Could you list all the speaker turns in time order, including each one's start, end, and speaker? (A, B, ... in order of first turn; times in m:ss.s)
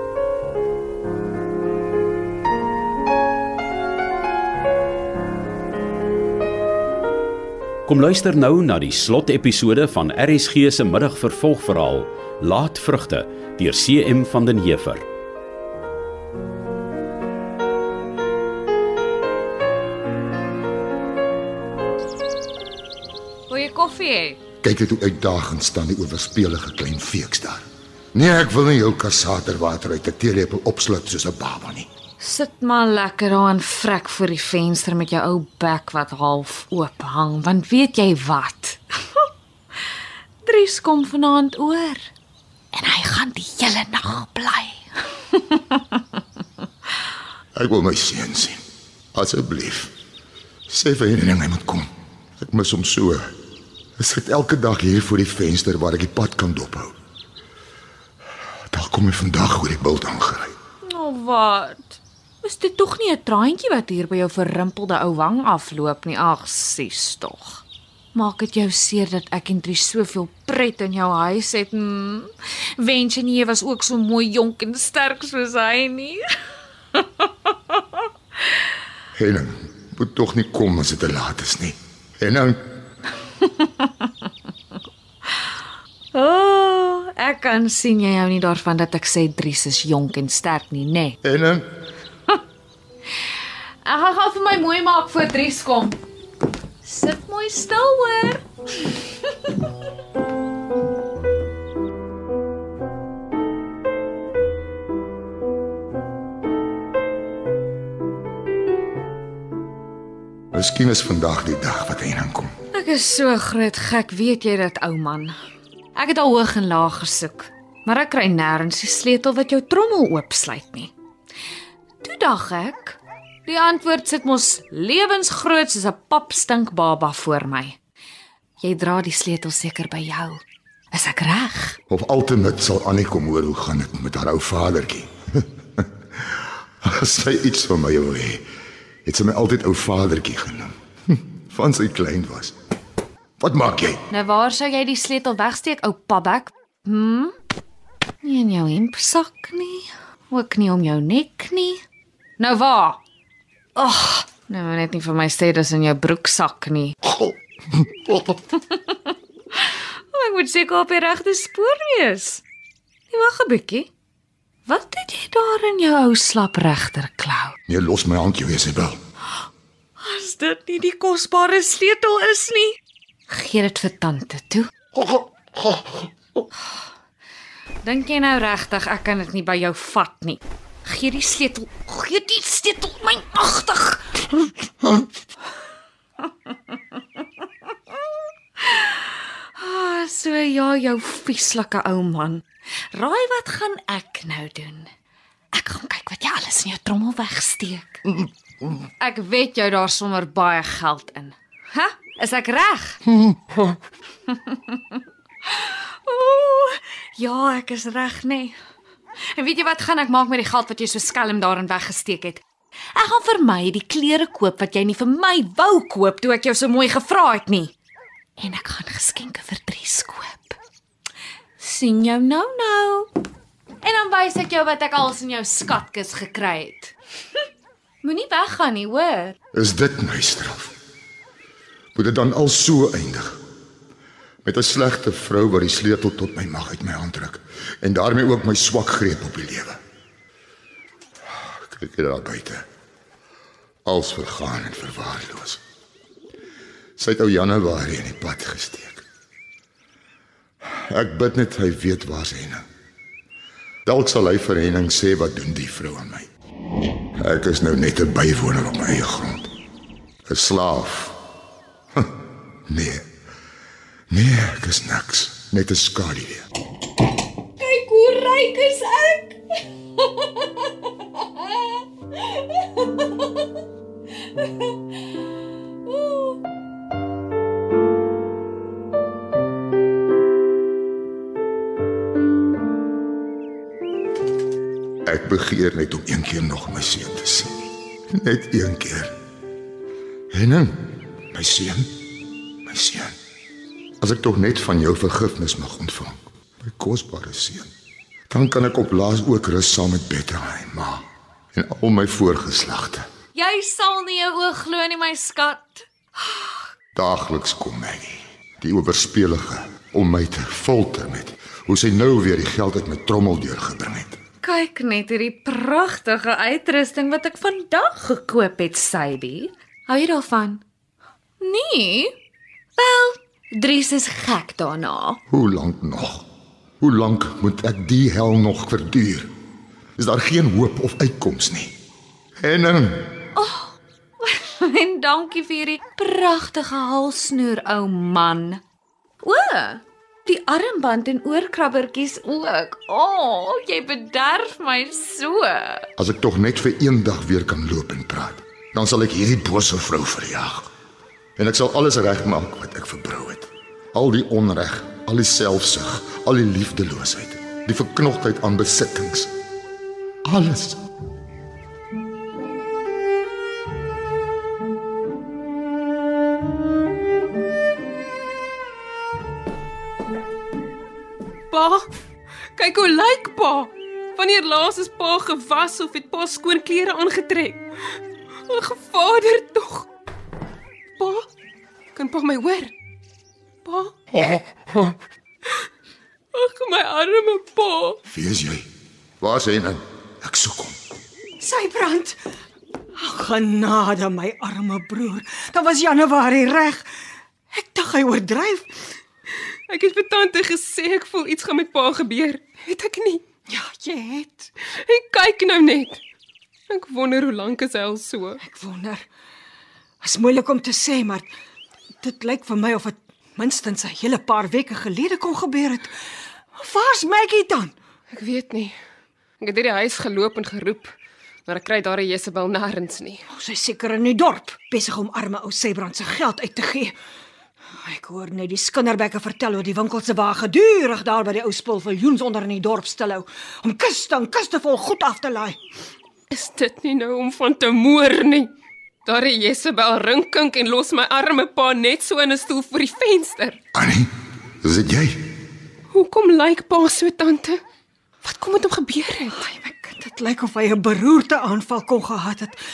0:07.9-0:15.0 A
0:23.5-0:24.4 B
0:24.6-0:31.9 C
0:32.2-0:38.8 B
0:40.4-0:42.1 B
0:42.7-0:44.8 B
0:45.3-0:45.8 B
0:47.5-0:48.6 C
0:49.1-0:49.9 C
0:50.7-0:51.9 C
0:52.4-0:53.3 C
0:54.0-0:56.9 C
0:58.7-1:00.5 C
1:00.8-1:16.2 B
1:16.9-1:17.3 B
1:19.1-1:22.6 C
1:23.4-1:24.0 B
1:26.1-1:31.2 B
1:31.2-1:31.6 C
1:33.8-1:36.0 B
1:36.8-1:38.4 B
1:50.5-1:52.5 C
1:52.7-1:55.3 B
1:55.9-2:00.9 B
2:02.0-2:07.8 B
2:08.6-2:11.8 B
2:11.9-2:15.8 C
2:16.8-2:18.4 C
2:19.0-2:22.5 C
2:23.4-2:24.0 C
2:24.1-2:27.3 B
2:28.2-2:31.8 B
2:32.4-2:33.0 B
2:33.8-2:37.0 B
2:40.1-2:42.4 B
2:43.1-2:43.9 B
2:44.6-2:47.6 B
2:47.7-2:49.0 C
2:50.0-2:52.8 B
2:53.3-2:54.7 B
2:57.8-3:04.3 B
3:08.6-3:08.9 B
3:09.6-3:14.9 B
3:15.5-3:18.1 B
3:18.8-3:23.0 B
3:24.3-3:24.8 B
3:25.5-3:28.5 B
3:29.3-3:32.4 B
3:32.9-3:37.7 B
3:38.4-3:40.6 B
3:41.6-3:43.1 B
3:43.8-3:46.9 B
3:48.0-3:49.4 B
3:49.5-3:50.7 C
3:51.9-3:53.4 C
3:54.4-3:59.8 C
4:01.4-4:02.6 C
4:03.8-4:05.6 C
4:07.0-4:09.0 C
4:10.7-4:12.6 C
4:13.8-4:16.3 C
4:17.2-4:19.5 C
4:20.3-4:21.2 C
4:22.7-4:23.1 C
4:24.1-4:26.5 C
4:27.6-4:29.4 B
4:30.0-4:30.5 B
4:35.9-4:36.2 B
4:45.0-4:49.2 C
4:50.3-4:51.9 C
4:52.6-4:53.2 C
4:54.0-4:57.7 C
4:58.3-5:03.0 C
5:03.3-5:06.5 B
5:06.9-5:14.2 C
5:14.4-5:20.6 B
5:21.4-5:22.1 B
5:22.8-5:25.2 B
5:25.3-5:26.2 C
5:26.8-5:29.3 C
5:30.0-5:31.7 C
5:32.4-5:33.1 C
5:33.3-5:38.6 B
5:39.2-5:45.9 B
5:46.0-5:50.7 C
5:51.4-5:59.3 C
6:00.2-6:00.8 C
6:11.5-6:11.8 D
6:12.6-6:17.6 D
6:18.5-6:19.9 D
6:21.0-6:21.2 D
6:21.9-6:22.7 D
6:23.6-6:24.3 D
6:26.3-6:28.0 D
6:28.1-6:28.7 C
6:29.2-6:30.8 C
6:31.4-6:32.2 E
6:33.0-6:36.8 E
6:37.5-6:38.7 E
6:39.7-6:43.2 D
6:43.5-6:44.4 E
6:44.8-6:46.0 D
6:46.7-6:48.4 D
6:48.5-6:49.0 E
6:50.0-6:51.3 E
6:52.0-6:55.9 E
6:56.5-6:57.7 E
6:58.1-6:58.8 D
6:59.4-7:00.9 D
7:01.5-7:03.3 D
7:03.3-7:06.9 E
7:07.8-7:15.6 E
7:16.3-7:18.5 D
7:19.0-7:23.6 D
7:23.7-7:24.1 C
7:24.6-7:25.3 C
7:25.9-7:27.6 D
7:28.2-7:29.5 D
7:29.5-7:32.6 E